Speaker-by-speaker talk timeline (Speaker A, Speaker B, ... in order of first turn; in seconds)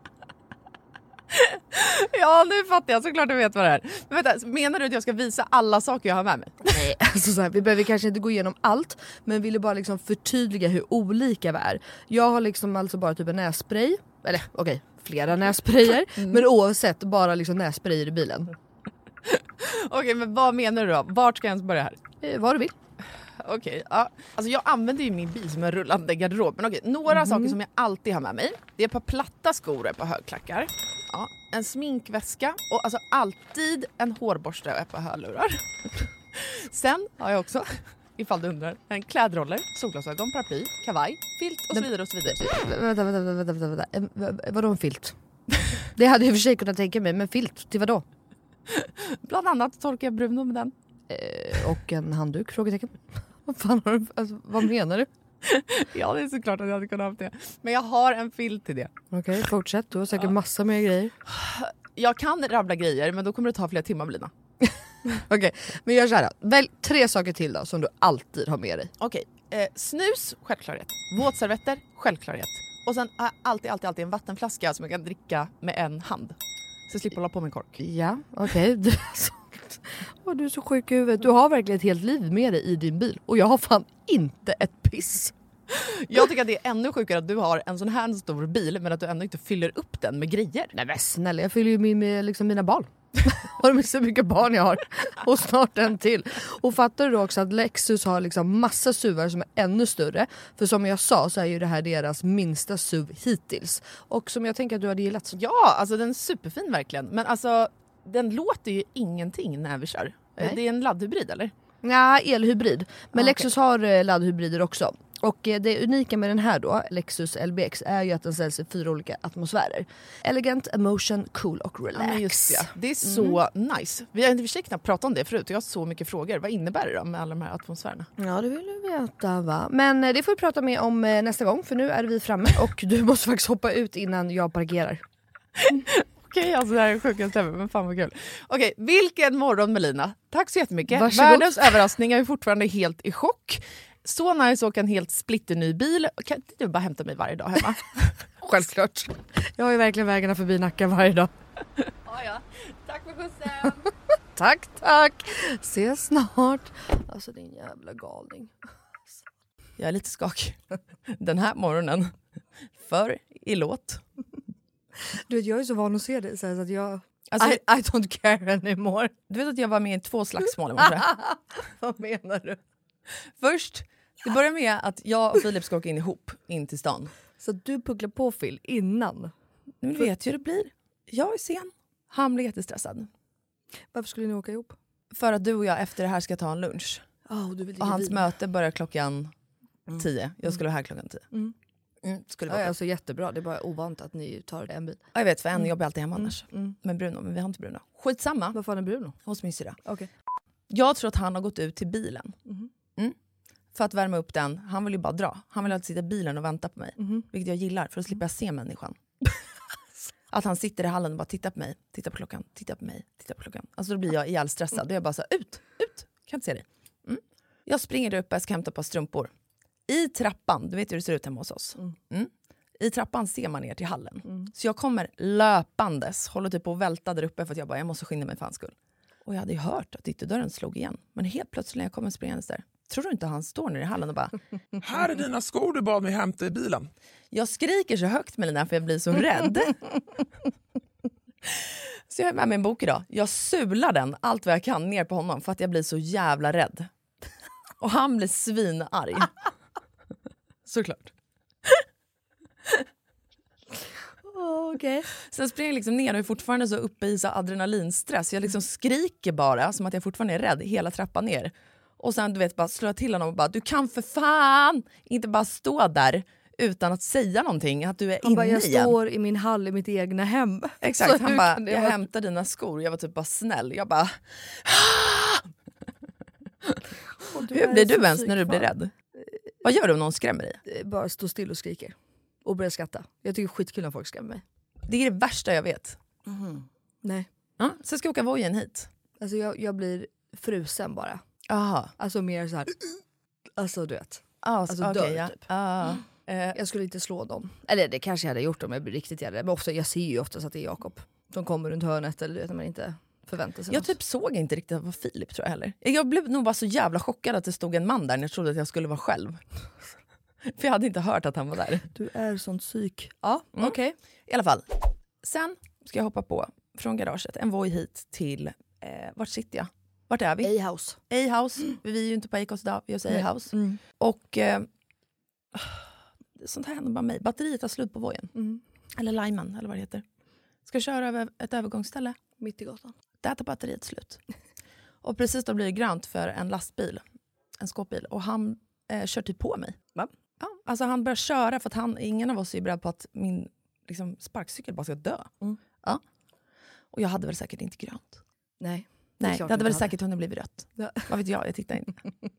Speaker A: 1.3-6.7, 19.2-22.0, 23.4-42.4, 48.7-50.7, 55.4-58.9, 61.2-64.3, 69.0-77.8, 85.7-90.7, 105.3-111.5, 113.1-113.5, 121.9-128.1, 135.6-148.2, 152.0-153.9, 159.8-162.1, 162.8-164.0, 167.3-167.6, 169.3-171.1, 173.4-177.1, 179.8-183.1, 185.1-187.0, 187.8-189.3, 189.9-191.2, 192.0-192.7, 195.1-198.6, 199.2-199.8, 200.7-202.3, 203.7-209.0, 210.3-219.3, 219.9-234.3, 237.3-240.0, 241.4-246.9, 247.8-249.3, 250.7-251.1, 255.3-268.9, 270.8-275.5, 277.5-278.9, 279.6-280.6, 284.8-286.4, 287.6-288.9, 291.5-291.9, 294.4-296.6, 303.7-309.4, 310.4-311.9, 313.6-314.7, 315.2-320.5, 321.1-324.7, 325.5-325.8, 326.4-328.3, 328.9-330.0, 330.6-332.2, 333.2-334.2, 335.0-337.0, 337.6-346.0, 346.9-348.2, 349.2-352.0
Speaker B: 6.7-18.5, 22.2-22.7, 27.3-27.5, 41.7-45.1, 45.9-48.0, 51.1-55.1, 59.1-61.1, 65.0-68.9, 77.8-85.3, 90.7-105.4, 111.8-123.4, 128.2-135.0, 140.9-141.8, 148.4-151.3, 154.3-158.5, 165.1-169.1, 170.8-172.6, 177.4-179.3, 183.9-184.8, 187.3-188.3, 192.5-195.0, 196.2-196.7, 198.5-199.2, 207.0-207.2, 254.2-255.1, 268.2-272.0, 277.2-278.7, 280.6-284.4, 289.2-291.2, 292.0-293.0, 293.6-295.5, 296.5-303.9, 311.9-313.9, 320.4-321.0, 323.1-323.8, 328.4-328.6, 332.4-332.9, 348.6-349.9, 350.8-351.1
Speaker C: 234.8-236.9